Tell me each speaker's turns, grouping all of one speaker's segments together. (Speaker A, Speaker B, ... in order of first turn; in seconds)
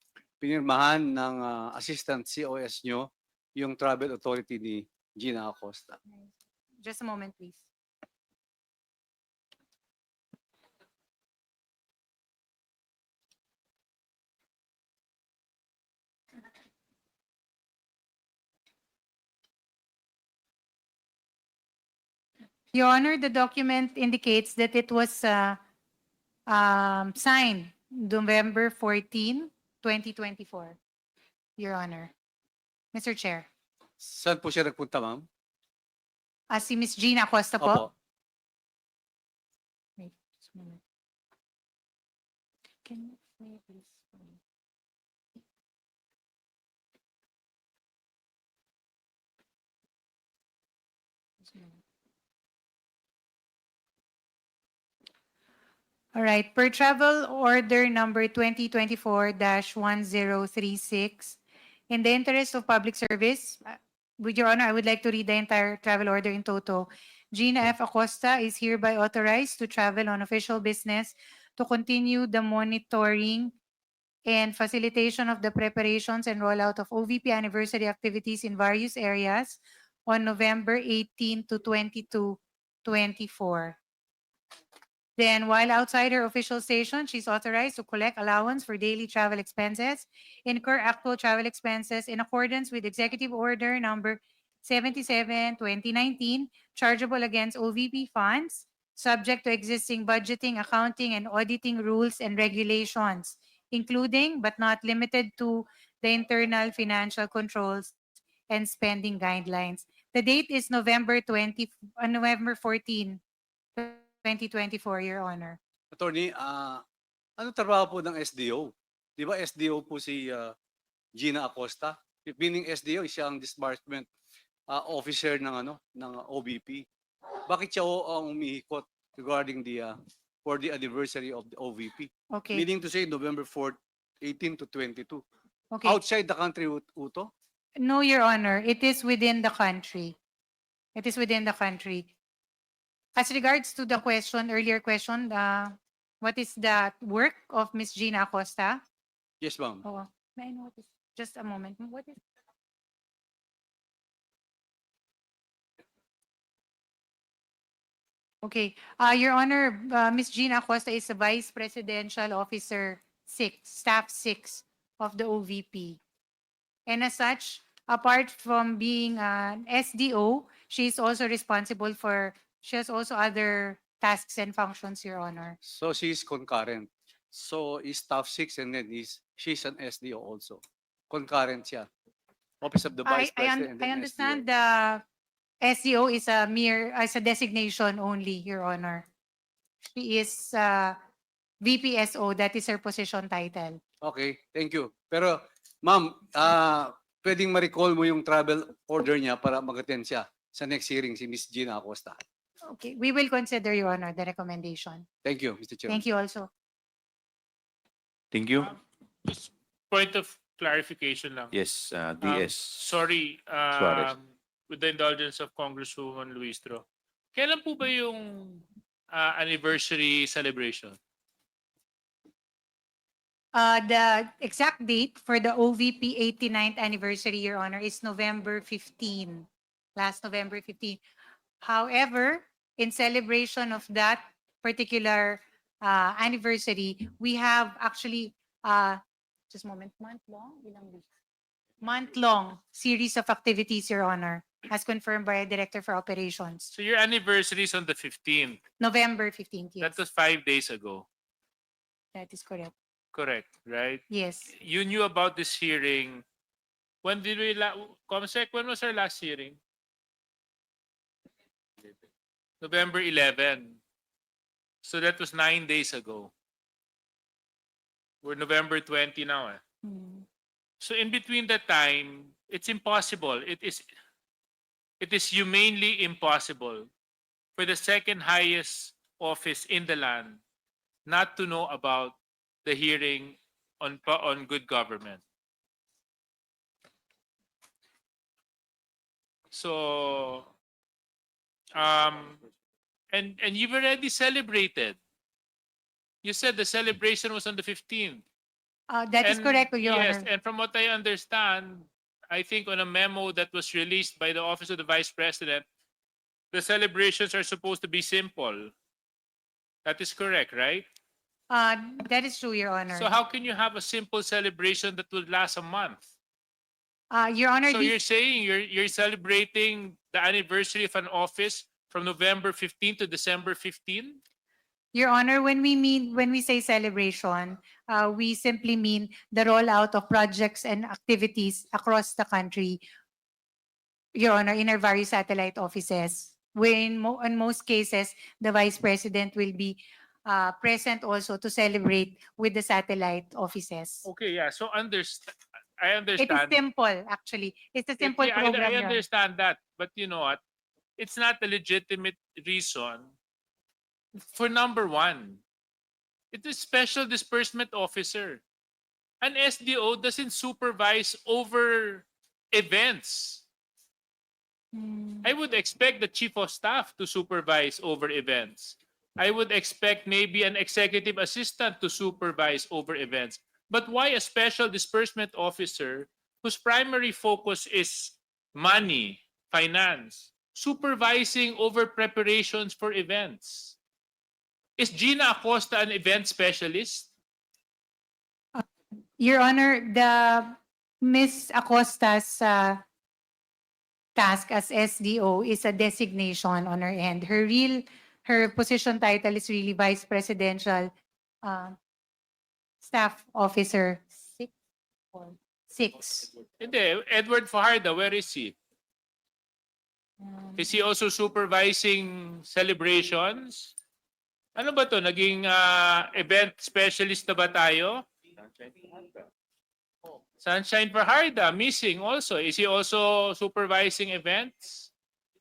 Speaker A: 0.4-6.0, 34.0-35.3, 37.6-37.9, 115.9-116.8, 117.4-120.5, 121.2-124.1, 124.7-126.8, 127.5-135.2, 135.8-137.3, 149.4-149.8, 175.7-181.9, 182.6-184.4, 194.0-202.2, 205.2-206.0
Speaker B: 6.8-7.7, 22.7-25.6, 26.5-30.8, 31.6-32.1, 32.9-33.5, 36.5-37.9, 40.0-40.8, 42.9-44.4, 51.5-51.8, 56.1-61.4, 61.9-73.5, 74.3-83.8, 85.2-107.9, 108.5-113.2, 113.8-115.6, 132.3-132.7, 135.7-136.0, 137.8-140.2, 141.0-142.1, 143.2-148.8, 149.8-152.2, 158.4-166.0, 166.9-175.6, 183.1-185.0, 185.6-189.1, 189.9-191.0, 191.6-193.8, 202.7-205.1, 205.9-206.5, 223.6-231.0, 231.6-241.1, 241.8-246.7, 248.8-249.9, 252.2-252.7, 254.1-254.5, 269.8-270.2, 298.9-300.3, 311.5-313.1, 317.1-318.0, 324.9-332.8, 334.2-344.1, 346.2-349.0, 364.7-365.3, 389.2-392.8, 394.2-400.9, 401.4-401.8, 402.8-404.5, 405.1-406.3, 410.2-410.6
Speaker C: 208.3-208.7, 211.5-212.8, 213.7-214.1
Speaker D: 209.2-211.5, 212.2-216.8, 217.3-221.0, 246.7-248.6, 249.8-251.1, 253.1-256.2, 257.0-259.6, 262.6-263.8, 264.8-266.3, 268.2-269.6, 270.8-273.9, 275.0-276.9, 277.6-280.4, 281.1-285.2, 289.5-290.5, 291.8-292.4, 293.1-295.0, 296.2-298.2, 299.2-305.6, 306.5-308.7, 309.9-310.9, 312.9-316.0, 317.7-324.2, 344.1-346.6, 348.0-350.4, 351.0-353.1, 354.3-355.4, 356.3-358.4, 359.2-363.4, 365.2-383.8, 384.8-387.1, 406.6-408.6, 410.6-413.7, 414.6-418.0, 420.4-424.9